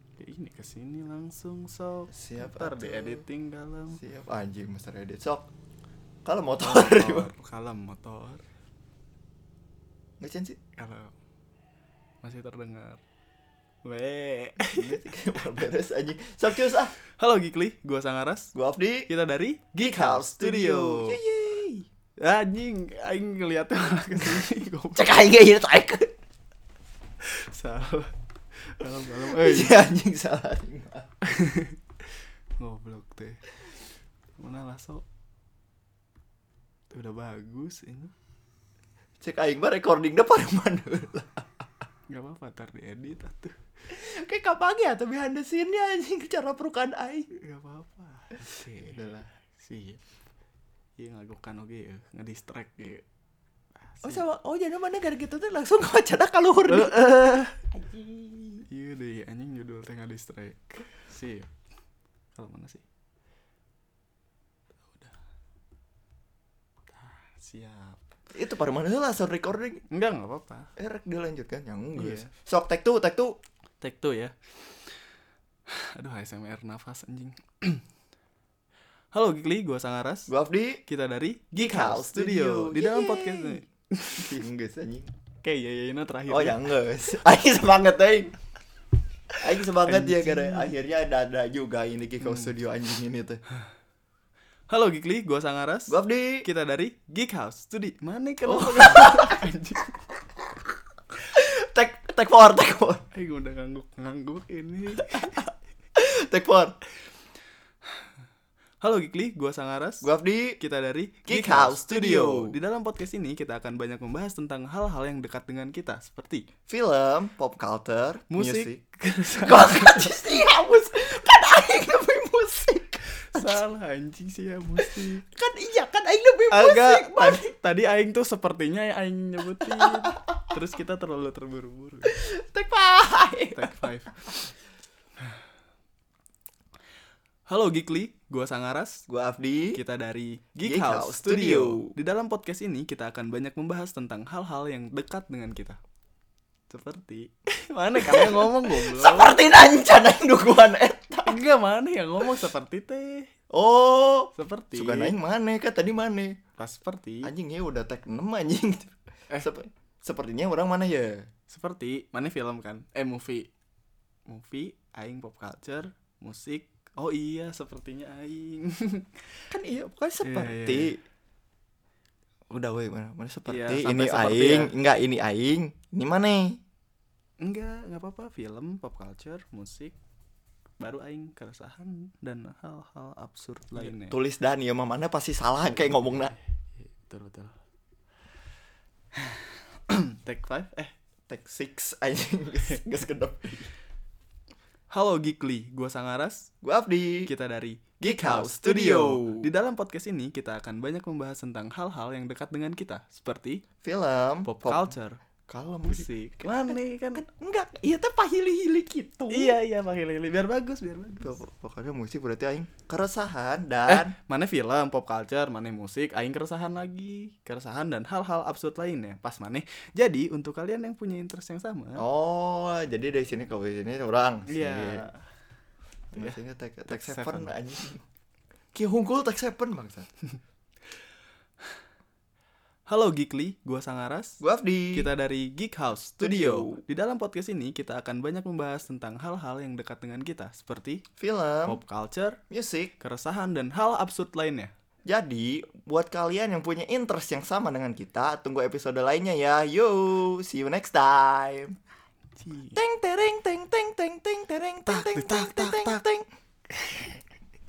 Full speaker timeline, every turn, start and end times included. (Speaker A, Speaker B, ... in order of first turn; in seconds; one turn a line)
Speaker A: 0.2-4.0
Speaker B: 2.1-3.2
Speaker B: 3.9-5.5
Speaker B: 6.2-7.3
Speaker A: 6.6-8.4
Speaker B: 10.2-10.6
Speaker A: 10.8-11.1
Speaker A: 12.2-13.0
Speaker A: 13.8-15.0
Speaker B: 14.7-16.9
Speaker A: 17.0-18.5
Speaker B: 18.5-19.1
Speaker A: 19.1-21.2
Speaker B: 19.8-21.9
Speaker A: 22.2-25.2
Speaker B: 24.9-26.1
Speaker A: 27.2-28.1
Speaker A: 28.8-29.8
Speaker B: 29.2-31.1
Speaker A: 31.2-31.8
Speaker A: 32.6-33.6
Speaker A: 34.4-35.0
Speaker A: 36.9-38.1
Speaker B: 39.2-41.8
Speaker A: 42.1-43.5
Speaker B: 43.9-47.3
Speaker A: 47.3-50.0
Speaker B: 48.9-49.2
Speaker A: 51.0-53.0
Speaker A: 53.9-54.2
Speaker B: 54.0-57.0
Speaker A: 56.7-57.7
Speaker B: 57.7-58.6
Speaker A: 58.6-61.5
Speaker A: 62.4-62.8
Speaker A: 66.9-68.0
Speaker B: 68.3-69.8
Speaker A: 69.9-70.7
Speaker B: 70.8-73.3
Speaker A: 71.9-72.3
Speaker A: 73.8-74.5
Speaker A: 75.7-77.8
Speaker A: 79.1-80.3
Speaker B: 80.3-80.8
Speaker A: 80.9-84.4
Speaker B: 81.6-83.6
Speaker B: 84.2-85.1
Speaker A: 85.4-86.6
Speaker B: 86.3-88.3
Speaker B: 89.4-93.4
Speaker A: 89.8-90.7
Speaker A: 92.2-92.5
Speaker A: 94.7-100.0
Speaker B: 95.9-96.5
Speaker B: 98.5-99.4
Speaker B: 101.2-103.0
Speaker A: 103.1-105.4
Speaker B: 105.0-106.7
Speaker A: 108.8-110.1
Speaker B: 110.0-110.6
Speaker A: 110.6-116.5
Speaker B: 111.3-112.6
Speaker B: 116.7-118.8
Speaker A: 118.3-120.5
Speaker B: 119.3-123.6
Speaker A: 123.2-125.2
Speaker B: 124.8-127.5
Speaker A: 126.5-132.1
Speaker B: 129.8-130.3
Speaker B: 132.1-133.9
Speaker A: 133.5-134.1
Speaker A: 137.5-139.1
Speaker B: 139.1-139.8
Speaker A: 139.7-145.8
Speaker B: 140.6-141.9
Speaker A: 146.7-149.4
Speaker B: 148.0-151.4
Speaker A: 151.2-153.3
Speaker B: 153.5-156.4
Speaker A: 154.3-155.2
Speaker A: 156.6-157.3
Speaker B: 157.2-161.3
Speaker A: 161.5-163.5
Speaker A: 164.3-169.4
Speaker B: 169.5-171.0
Speaker A: 170.2-170.9
Speaker B: 172.5-176.6
Speaker A: 173.5-174.7
Speaker A: 177.4-179.9
Speaker A: 180.8-184.2
Speaker B: 183.7-186.3
Speaker A: 186.8-187.5
Speaker A: 189.2-190.9
Speaker B: 191.3-193.7
Speaker A: 194.9-196.5
Speaker B: 196.6-197.3
Speaker A: 197.3-203.6
Speaker B: 198.0-199.5
Speaker B: 203.8-204.9
Speaker A: 204.4-205.2
Speaker B: 205.5-206.1
Speaker A: 205.8-207.2
Speaker B: 207.1-209.6
Speaker A: 209.3-211.4
Speaker B: 211.2-214.2
Speaker A: 213.8-222.0
Speaker B: 222.0-225.1
Speaker A: 224.5-225.2
Speaker B: 226.1-228.0
Speaker A: 226.9-227.5
Speaker B: 228.7-230.1
Speaker A: 232.9-234.4
Speaker B: 234.4-235.1
Speaker A: 234.9-241.0
Speaker B: 236.2-236.8
Speaker B: 241.2-241.8
Speaker A: 241.7-242.4
Speaker B: 242.5-242.9
Speaker A: 243.0-244.7
Speaker B: 245.1-251.8
Speaker A: 252.4-252.8
Speaker B: 252.7-256.3
Speaker A: 254.8-256.0
Speaker A: 256.7-257.2